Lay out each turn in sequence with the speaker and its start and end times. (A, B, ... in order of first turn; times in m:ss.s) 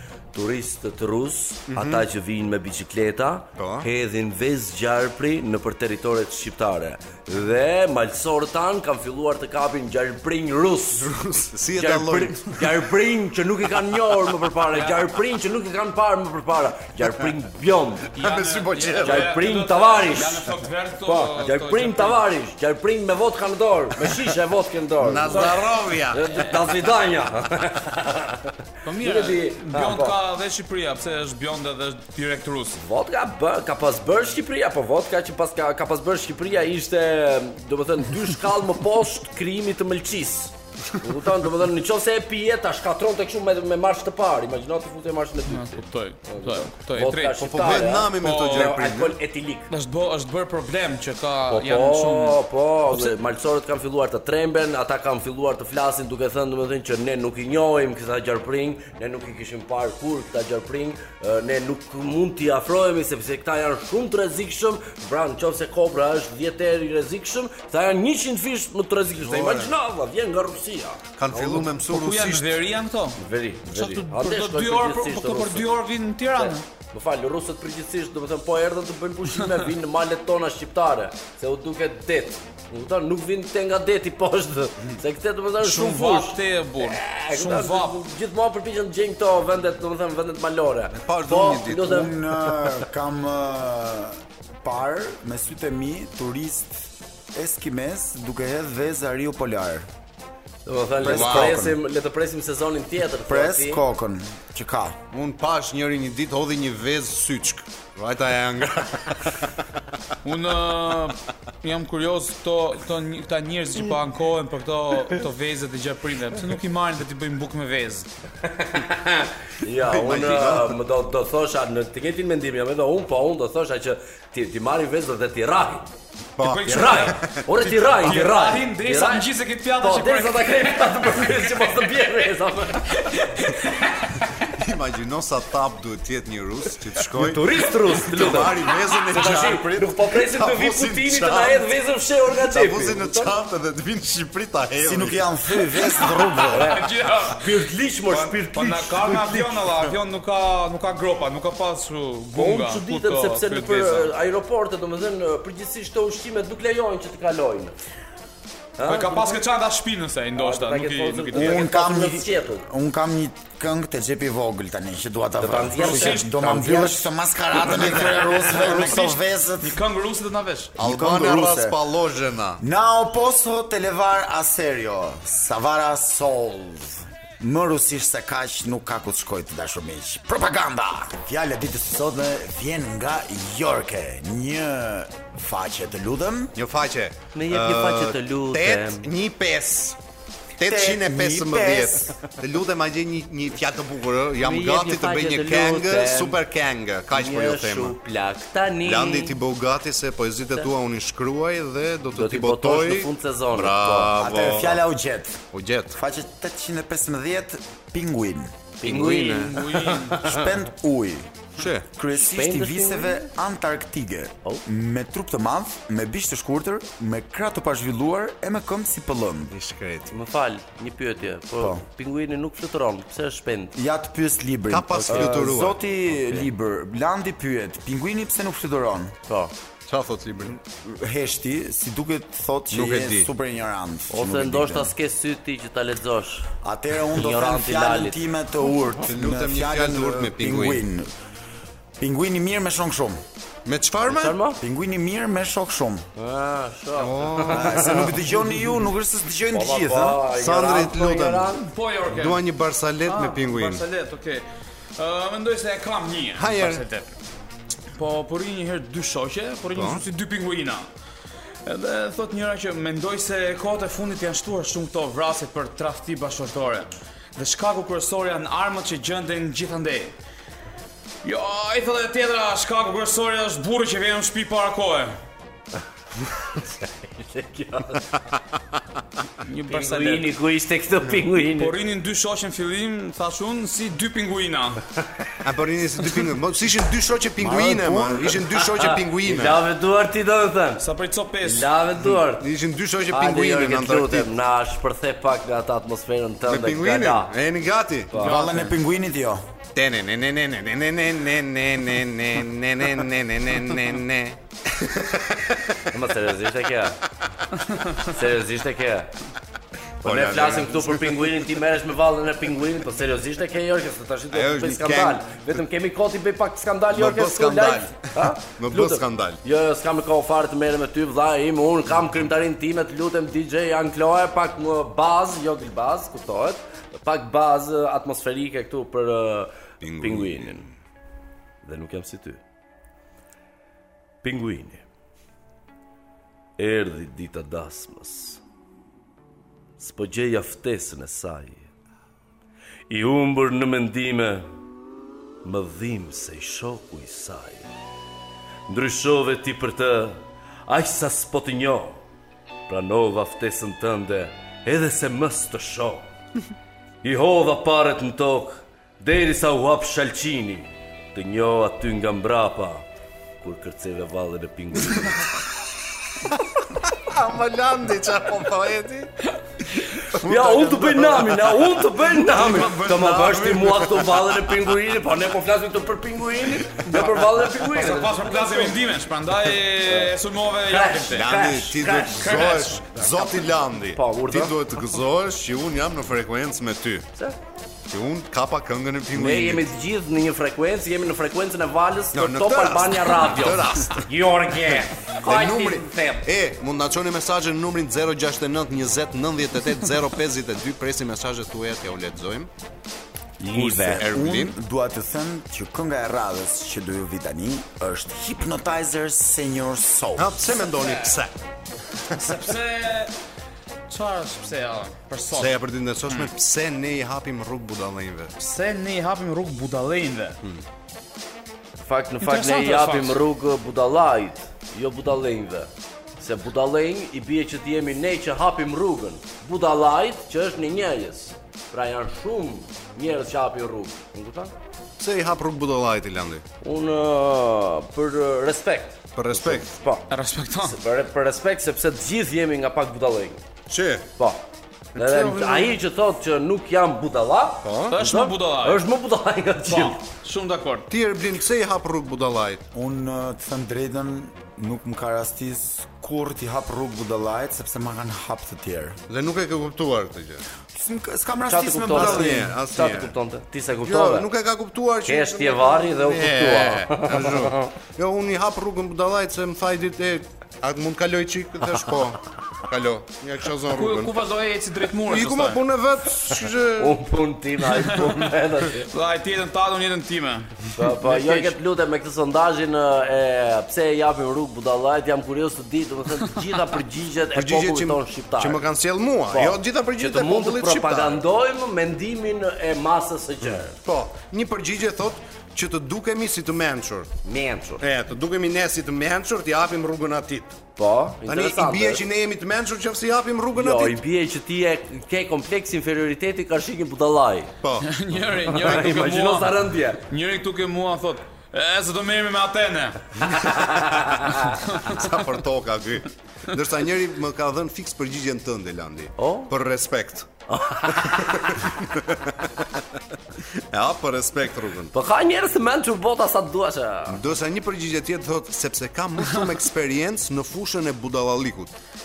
0:00.3-0:11.1 A
0:01.7-0:02.0 B
0:03.6-0:03.9 B
0:11.0-0:12.8 B
0:11.7-0:18.1 A
0:18.1-0:22.2 C
0:18.2-0:19.4 B
0:19.0-0:20.4 A
0:21.0-0:30.2 A
0:25.0-0:26.3 B
0:28.8-0:32.8 C
0:32.7-0:49.7 A
0:45.5-0:48.8 C
0:47.4-0:49.2 B
0:49.7-0:52.4 C
0:51.5-1:11.6 A
1:09.2-1:09.7 B
1:11.2-1:12.5 B
1:11.4-1:16.6 C
1:13.2-1:15.6 A
1:16.4-1:32.2 A
1:25.6-1:28.0 C
1:30.9-1:32.0 B
1:31.6-1:39.8 D
1:40.6-1:43.8 A
1:41.0-1:41.8 D
1:41.0-1:41.6 B
1:43.3-1:45.0 D
1:45.1-1:49.5 B
1:50.2-1:58.1 C
1:58.4-2:05.9 A
1:59.8-2:00.8 B
2:06.4-2:07.4 B
2:06.4-2:11.9 C
2:06.6-2:13.1 A
2:12.9-2:14.2 C
2:14.4-2:21.7 B
2:17.1-2:23.3 A
2:22.5-2:25.2 B
2:24.8-2:26.8 D
2:26.0-2:27.6 C
2:26.5-2:29.6 A
2:28.1-2:34.1 C
2:32.3-2:37.7 A
2:38.8-2:39.4 A
2:38.8-2:41.7 C
2:40.3-2:42.6 A
2:41.3-2:49.8 D
2:45.4-2:47.0 A
2:45.7-2:47.0 C
2:47.5-2:50.7 C
2:50.8-2:51.8 D
2:50.8-2:52.6 B
2:52.6-3:06.5 D
3:06.6-3:10.0 B
3:07.3-3:09.1 A
3:10.6-3:17.9 B
3:10.6-3:12.1 D
3:14.4-3:16.4 A
3:17.1-3:19.4 A
3:18.8-3:24.8 B
3:22.1-3:24.1 A
3:24.2-3:25.4 D
3:25.5-3:26.0 B
3:25.9-3:28.5 D
3:28.8-3:30.5 A
3:28.8-3:29.6 B
3:29.0-3:30.3 C
3:30.2-3:31.3 D
3:31.6-3:31.8 B
3:31.9-3:39.5 D
3:32.2-3:33.3 A
3:39.5-3:40.1 B
3:40.1-3:43.8 A
3:41.6-3:41.8 D
3:43.8-3:49.2 D
3:44.7-3:45.8 B
3:45.0-3:45.5 A
3:49.3-3:49.5 A
3:49.8-3:50.6 B
3:50.7-3:54.9 D
3:52.7-3:53.3 B
3:54.1-3:56.5 A
3:56.6-4:01.1 D
3:57.1-3:58.2 A
3:59.0-4:00.8 B
4:02.0-4:03.2 D
4:03.6-4:04.4 B
4:04.0-4:04.6 A
4:04.6-4:06.0 D
4:06.2-4:08.3 A
4:07.0-4:08.0 B
4:07.5-4:10.2 D
4:09.5-4:11.6 A
4:10.3-4:11.6 B
4:11.6-4:12.4 C
4:12.1-4:13.8 B
4:13.0-4:14.4 C
4:15.0-4:17.1 C
4:16.4-4:16.8 B
4:17.9-4:20.9 C
4:19.7-4:20.0 B
4:21.6-4:30.1 C
4:31.2-4:35.1 C
4:36.4-4:38.1 A
4:39.4-4:40.3 C
4:39.7-4:41.7 A
4:41.4-4:44.8 C
4:45.4-4:49.6 B
4:47.4-4:50.8 A
4:47.5-4:48.1 D
4:50.8-4:51.7 C
4:51.4-4:52.4 A
4:52.1-4:54.3 B
4:53.1-4:57.3 A
4:56.5-4:58.1 B
4:58.1-4:58.4 A
4:58.2-4:58.7 C
4:58.2-4:59.4 D
4:59.7-5:05.8 B
5:05.9-5:07.0 A
5:08.0-5:09.1 A
5:10.0-5:11.4 B
5:10.0-5:30.7 A
5:14.3-5:15.2 B
5:16.9-5:19.4 B
5:29.8-5:30.6 B
5:31.6-5:32.4 A
5:34.2-5:34.8 A
5:36.6-5:38.4 A
5:39.8-5:41.7 A
5:42.9-5:44.5 A
5:45.4-5:47.7 A
5:48.7-5:52.0 A
5:52.7-5:56.1 A
5:57.0-6:02.8 A
6:03.4-6:05.3 A
6:06.8-6:09.1 B
6:09.9-6:14.5 B
6:10.1-6:18.8 A
6:16.8-6:21.4 C
6:19.9-6:20.1 A
6:20.6-6:24.6 A
6:21.1-6:27.1 B
6:22.0-6:22.8 C
6:27.9-6:29.7 B
6:29.1-6:36.3 A
6:32.1-6:34.1 B
6:35.2-6:42.5 B
6:43.4-6:44.0 A
6:43.5-6:50.4 D
6:43.5-6:44.5 B
6:50.2-6:51.4 B
6:50.7-6:51.2 C
6:51.9-6:52.2 B
6:52.1-6:53.1 C
6:53.9-6:56.3 C
6:55.3-6:58.3 B
6:58.4-7:00.4 C
7:01.8-7:14.5 A
7:02.2-7:03.2 C
7:15.0-7:16.4 B
7:16.6-7:20.1 A
7:19.1-7:19.7 B
7:20.1-7:20.8 C
7:20.6-7:23.4 A
7:23.7-7:24.1 B
7:24.9-7:25.8 B
7:25.0-7:30.0 A
7:27.6-7:28.0 B
7:27.9-7:28.8 C
7:29.6-7:30.9 C
7:30.9-7:32.6 B
7:32.7-7:39.0 D
7:39.1-7:40.4 B
7:40.7-7:42.5 D
7:41.5-7:44.3 A
7:41.9-7:43.1 B
7:43.8-7:54.1 B
7:45.0-7:47.7 A
7:53.7-7:55.6 C
7:55.0-7:57.0 B
7:56.8-7:58.9 A
7:57.7-8:01.5 C
8:00.7-8:08.6 A
8:07.3-8:11.2 B
8:09.3-8:13.8 A
8:13.8-8:17.1 B
8:17.2-8:17.8 A
8:17.8-8:20.6 B
8:20.8-8:22.0 A
8:21.2-8:24.0 B
8:23.5-8:27.5 A
8:27.6-8:27.9 B
8:27.8-8:33.6 C
8:28.4-8:30.0 A
8:33.4-8:34.6 A
8:34.7-8:35.0 C
8:34.7-8:40.3 B
8:39.2-8:39.5 A
8:40.5-8:41.6 A
8:40.9-8:42.7 B
8:43.7-8:44.9 B
8:44.9-8:47.2 A
8:47.1-8:51.7 B